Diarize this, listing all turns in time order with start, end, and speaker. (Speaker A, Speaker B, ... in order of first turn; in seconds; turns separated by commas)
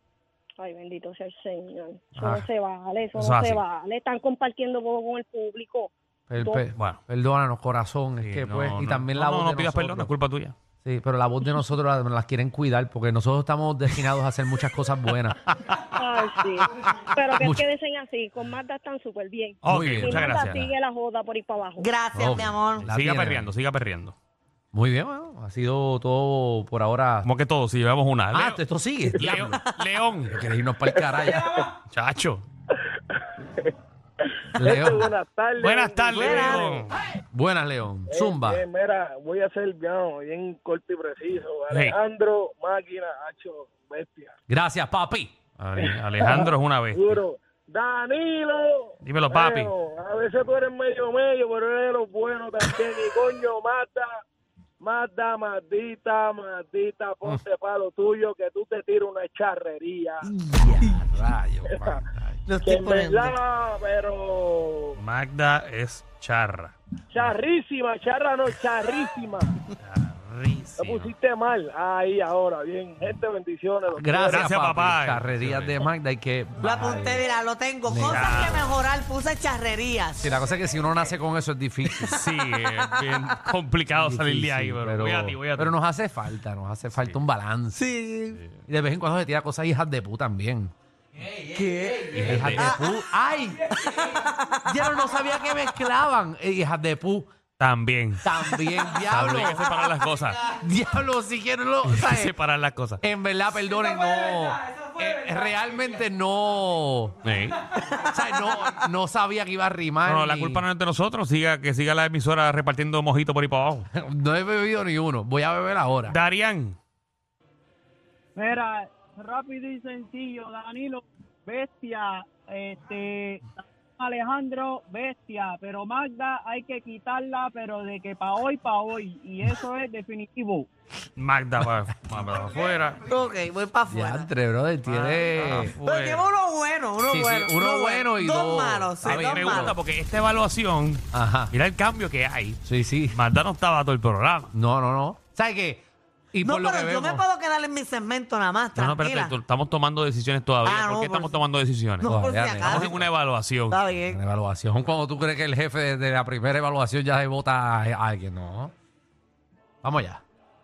Speaker A: 0.6-6.7, Speaker B: 2.1-2.5, Speaker C: 3.1-3.6, Speaker B: 6.3-10.1, Speaker C: 8.2-10.5, Speaker B: 10.8-15.4, Speaker A: 15.9-21.9, Speaker B: 17.4-17.6, Speaker C: 19.6-20.7, Speaker B: 19.6-20.6, Speaker D: 21.8-22.9, Speaker B: 22.1-23.5, Speaker C: 22.8-24.1, Speaker B: 24.7-27.3, Speaker C: 27.2-28.6, Speaker B: 28.3-29.6, Speaker C: 29.2-30.4, Speaker B: 30.3-31.6, Speaker E: 31.2-31.6, Speaker C: 31.9-32.4, Speaker B: 34.6-35.1, Speaker E: 34.6-36.9, Speaker C: 35.6-36.9, Speaker D: 36.2-36.7, Speaker B: 37.3-38.6, Speaker E: 38.1-44.4, Speaker C: 41.7-42.0, Speaker B: 44.5-45.9, Speaker C: 45.6-47.2, Speaker E: 46.2-54.2, Speaker C: 49.0-49.7, Speaker E: 54.8-60.3, Speaker D: 60.4-61.0, Speaker B: 60.8-62.4, Speaker E: 61.7-62.0, Speaker D: 62.5-63.3, Speaker E: 62.6-65.0, Speaker C: 65.0-66.7, Speaker E: 67.1-69.5, Speaker C: 69.8-71.1, Speaker E: 70.8-74.4, Speaker B: 73.9-77.2, Speaker C: 74.3-75.9, Speaker D: 76.6-80.2, Speaker B: 77.9-78.6, Speaker C: 78.1-78.8, Speaker B: 80.2-82.2, Speaker C: 82.0-85.7, Speaker B: 83.9-87.8, Speaker D: 87.8-88.4, Speaker B: 88.7-90.7, Speaker D: 91.5-92.1, Speaker B: 91.6-93.9, Speaker C: 92.1-92.7, Speaker D: 93.9-94.6, Speaker B: 94.6-97.3, Speaker C: 97.6-100.4, Speaker B: 98.2-99.8, Speaker B: 100.4-102.3, Speaker C: 101.8-103.0, Speaker B: 103.0-107.2, Speaker C: 107.2-107.8, Speaker B: 108.0-110.6, Speaker C: 110.0-113.9, Speaker B: 113.9-116.2, Speaker C: 116.1-116.8, Speaker F: 118.3-130.7, Speaker C: 131.2-133.0, Speaker D: 133.0-134.3, Speaker B: 133.9-135.8, Speaker C: 134.9-136.3, Speaker D: 135.7-139.7, Speaker B: 137.1-139.7, Speaker C: 139.0-142.6, Speaker B: 141.1-141.5, Speaker B: 142.6-143.2, Speaker C: 143.1-144.5, Speaker B: 144.5-147.2, Speaker D: 146.4-149.4, Speaker C: 148.8-153.8, Speaker D: 150.6-151.3, Speaker D: 152.0-153.0, Speaker B: 152.0-153.0, Speaker D: 153.7-154.2, Speaker B: 154.1-158.7, Speaker B: 159.8-160.2